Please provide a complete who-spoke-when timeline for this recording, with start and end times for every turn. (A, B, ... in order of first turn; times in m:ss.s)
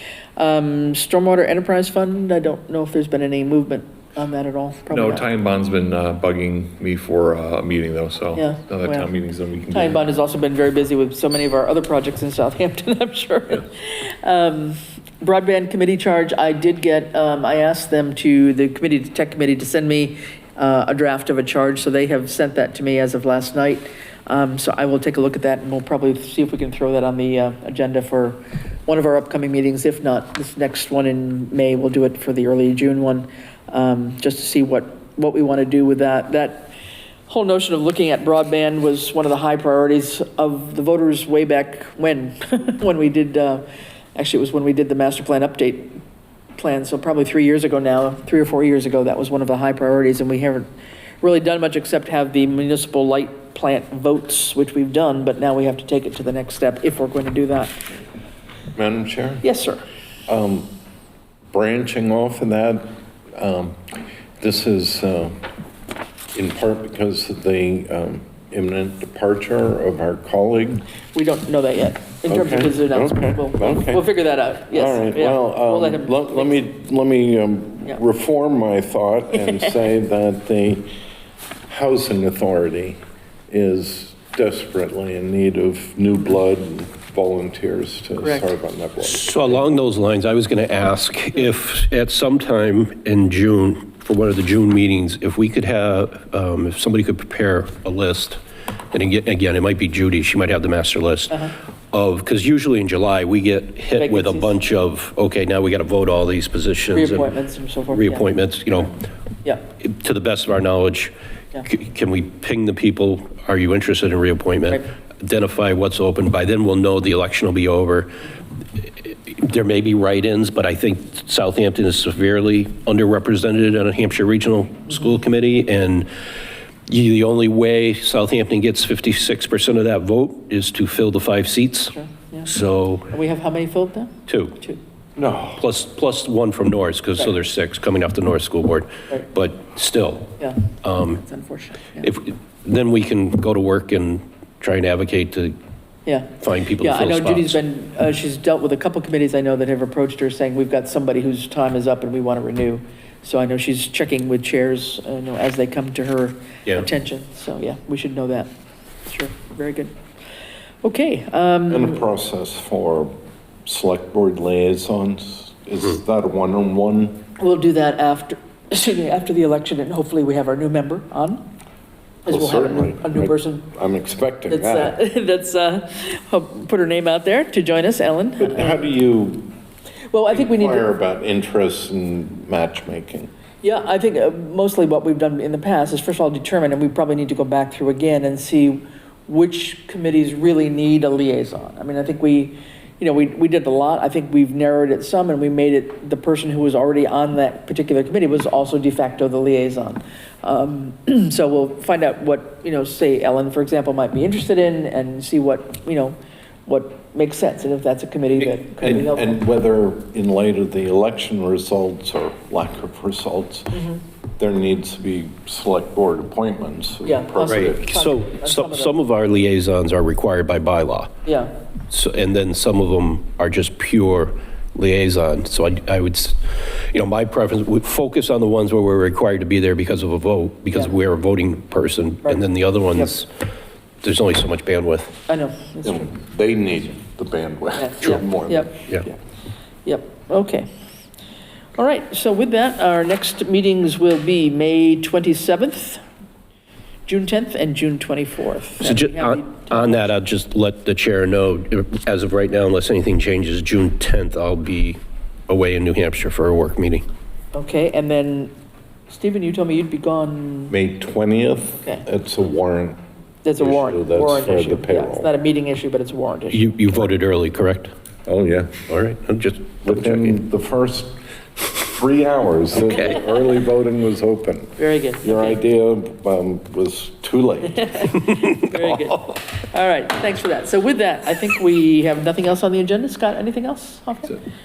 0:00.4-0:05.3 A
0:04.9-0:10.0 B
0:08.4-0:09.1 A
0:09.7-0:36.7 A
0:37.3-0:43.6 A
0:44.2-0:46.0 A
0:46.6-0:50.7 A
0:51.2-0:57.8 A
0:58.8-0:59.4 C
0:59.4-0:59.8 A
1:00.3-1:00.7 C
1:01.5-1:05.4 C
1:06.3-1:10.8 C
1:11.1-1:16.6 A
1:12.3-1:14.1 C
1:14.7-1:20.9 C
1:21.7-1:23.0 C
1:23.5-1:29.7 C
1:28.2-1:28.5 A
1:29.0-1:38.4 D
1:38.9-1:47.3 D
1:44.0-1:44.6 A
1:46.9-1:48.3 A
1:47.9-1:49.0 D
1:49.8-1:51.1 D
1:51.6-1:58.1 D
1:58.8-2:06.1 D
2:06.9-2:11.9 D
2:11.9-2:12.5 A
2:12.4-2:13.1 D
2:13.1-2:14.8 A
2:14.3-2:14.6 D
2:15.2-2:15.6 C
2:15.6-2:21.2 D
2:20.4-2:22.1 A
2:22.0-2:25.6 D
2:26.1-2:38.5 A
2:26.4-2:27.6 D
2:39.1-2:39.9 A
2:40.8-2:42.0 A
2:41.7-2:43.1 C
2:43.6-2:47.2 C
2:47.4-2:51.4 A
2:52.3-2:53.7 A
2:52.3-2:55.0 C
2:54.5-2:58.8 A
2:58.4-2:59.5 C
3:00.1-3:00.9 A
3:00.3-3:03.3 C
3:03.6-3:29.4 A
3:28.6-3:33.8 C
3:33.7-3:34.0 A
3:34.4-3:38.0 C
3:37.0-3:39.0 A
3:37.5-3:41.1 D
3:41.2-3:41.5 A
3:41.9-3:53.3 D
3:52.2-3:53.1 A
3:54.0-3:55.2 D
3:55.3-3:56.1 A
3:55.8-3:59.2 C
3:57.8-3:59.1 A
3:59.8-4:00.7 A
4:01.8-4:06.0 A
4:07.1-4:10.1 A
4:08.8-4:17.0 D
4:17.5-4:18.5 A
4:19.1-4:20.8 A
4:20.7-4:23.0 C
4:21.8-4:22.0 A
4:23.4-4:26.7 A
4:23.6-4:25.3 C
4:26.5-4:27.9 D
4:28.3-4:28.8 C
4:28.9-4:30.4 D
4:29.8-4:38.1 C
4:32.9-4:33.3 D
4:34.8-4:35.6 A
4:37.7-4:44.4 A
4:38.2-4:39.1 D